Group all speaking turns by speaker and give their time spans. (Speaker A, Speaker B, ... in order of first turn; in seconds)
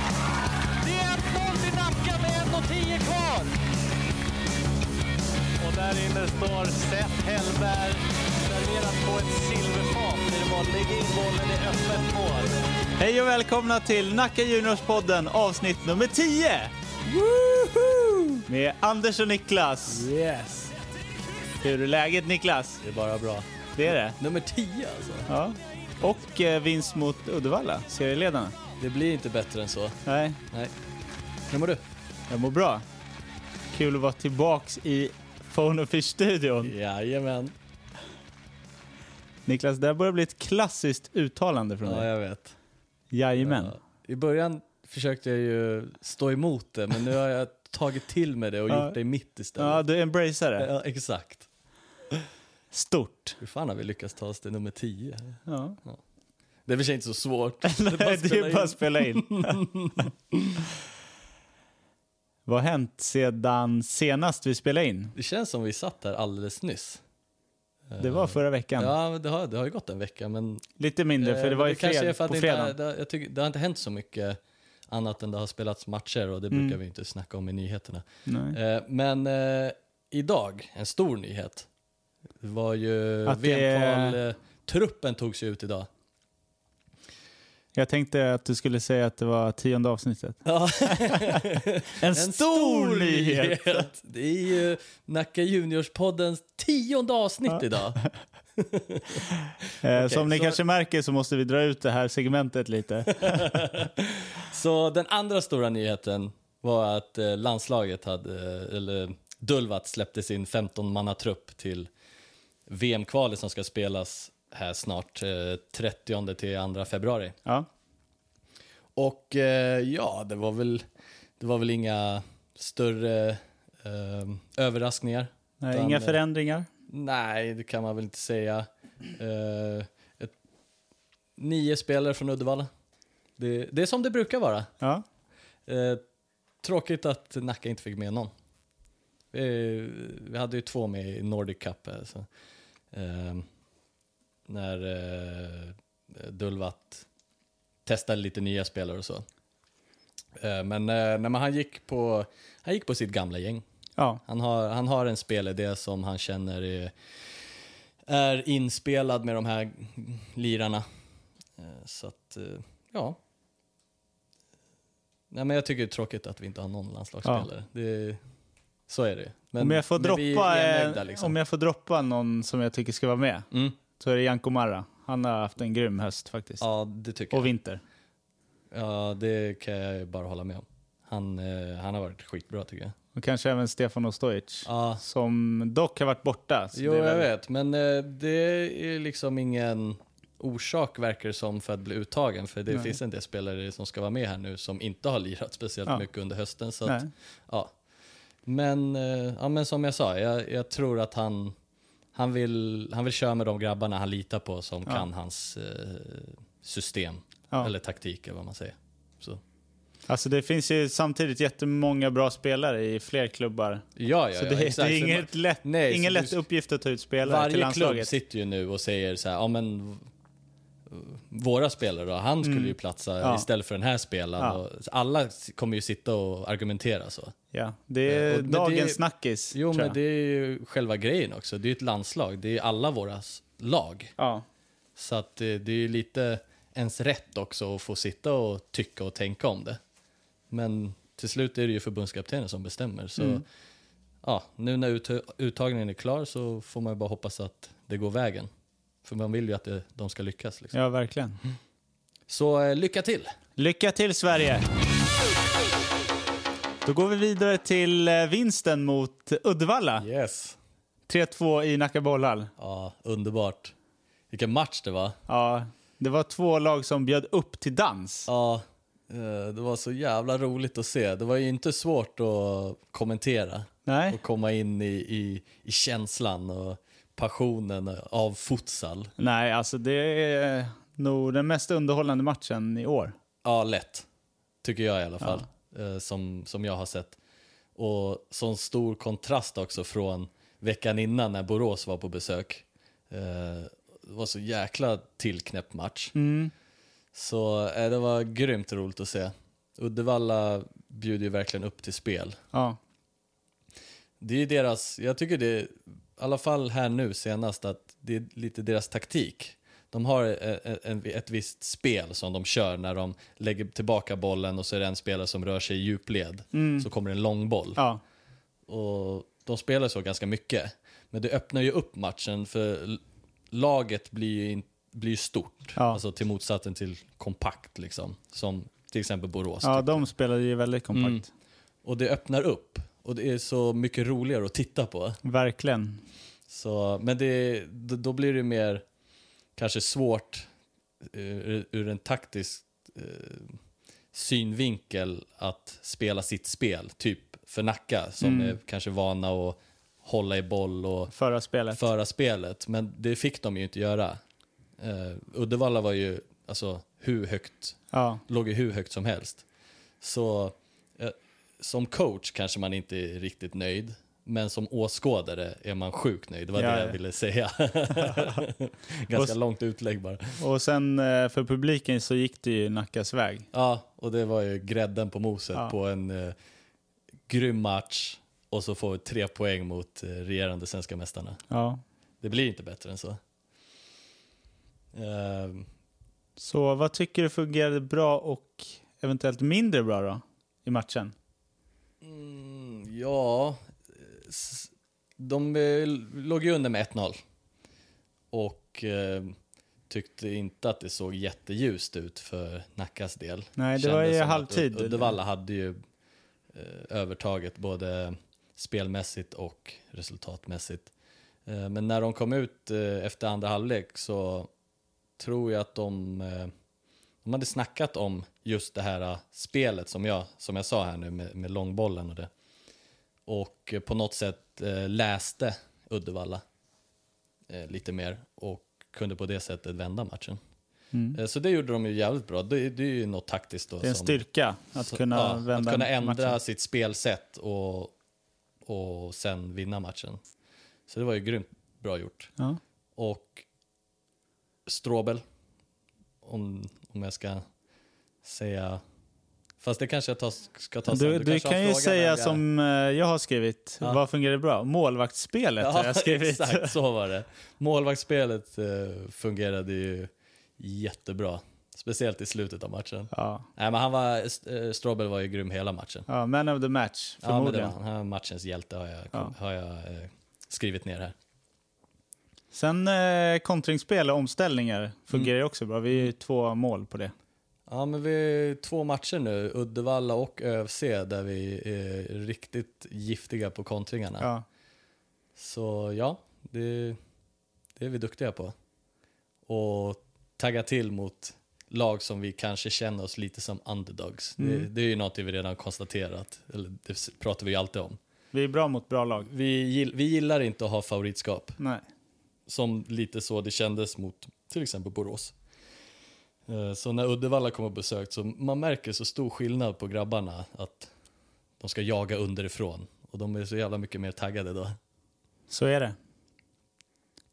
Speaker A: 0.8-3.5, 5.6-12.6, 17.4-18.1
Speaker B: 13.0-16.7, 18.5-20.1, 21.6-22.8, 23.8-24.2, 25.3-28.6, 30.0-30.4, 32.3-32.8, 33.7-36.7, 39.5-42.1, 43.1-43.7, 48.7-48.9, 49.6-50.7, 52.7-53.4, 55.5-55.8, 57.6-60.1, 62.5-65.1, 68.0-68.9, 70.8-72.7, 78.3-78.6, 83.2-84.2, 87.7-91.5, 92.0-93.8, 99.8-103.6, 125.6-126.7, 169.6-176.6, 177.3-177.8, 183.1-187.3, 196.8-197.1, 210.1-218.1, 222.4-223.4, 227.5-229.9, 234.2-234.4, 243.2-243.4, 250.7-251.4, 253.6-254.7, 256.8-260.1, 261.1-262.5, 265.3-268.3, 273.9-274.2, 279.2-283.1, 296.1-296.5, 302.5-302.8, 316.5-316.9, 317.8-318.0, 325.8-326.0, 329.6-331.3, 335.2-336.0, 348.2-348.6, 351.1-351.8, 357.9-358.2, 366.6-367.0, 370.4-373.5, 381.5-381.8, 386.4-391.1, 403.6-405.1, 430.9-431.2, 433.8-436.4, 450.9-456.7, 463.1-463.4, 466.1-467.7, 472.5-477.1, 494.4-494.7, 498.3-499.3, 515.5-516.0
Speaker C: 20.1-20.7, 22.8-25.3, 28.8-30.7, 31.5-31.8, 36.6-37.5, 41.8-42.5, 43.4-49.8, 50.6-51.5, 53.4-56.0, 56.6-60.7, 65.1-67.0, 67.9-70.6, 71.2-81.7, 82.4-85.9, 90.4-98.0, 98.5-99.3, 99.9-100.6, 103.1-111.9, 112.7-117.3, 119.0-120.8, 121.4-126.2, 126.9-130.3, 131.4-132.7, 133.4-134.7, 135.7-136.0, 136.6-138.3, 139.3-142.3, 142.9-143.4, 144.5-147.1, 147.8-149.2, 150.3-153.6, 154.2-156.9, 158.1-160.8, 161.6-163.2, 165.3-168.2, 168.9-171.3, 173.5-173.8, 176.6-177.5, 178.7-182.9, 184.7-185.0, 186.7-197.7, 198.4-201.5, 202.1-209.4, 213.9-216.4, 217.2-220.1, 220.9-227.3, 228.1-229.0, 229.5-234.1, 234.9-239.8, 240.5-243.4, 244.2-248.5, 249.0-250.7, 252.3-253.3, 260.0-260.6, 262.6-263.7, 264.3-265.2, 268.3-279.1, 283.4-284.1, 284.6-287.2, 287.8-296.1, 297.1-302.4, 304.2-317.8, 318.7-330.0, 330.9-331.2, 331.8-335.2, 336.5-338.8, 339.6-340.5, 341.0-343.6, 344.1-351.1, 351.7-354.2, 354.8-359.4, 360.0-370.4, 373.5-376.3, 377.3-381.4, 382.2-383.2, 384.9-385.7, 392.0-397.2, 398.3-399.3, 399.9-405.8, 406.5-410.9, 411.4-414.5, 415.2-416.5, 417.2-422.3, 423.3-426.4, 427.5-430.4, 431.1-434.2, 434.8-437.9, 438.6-440.2, 440.9-442.3, 442.9-443.4, 444.6-445.2, 446.2-447.4, 448.2-448.8, 449.6-452.4, 455.6-466.1, 467.2-471.1, 477.7-484.3, 485.4-487.0, 487.8-488.5, 489.5-498.0, 499.2-501.6, 502.5-505.3, 506.5-510.9, 511.6-514.8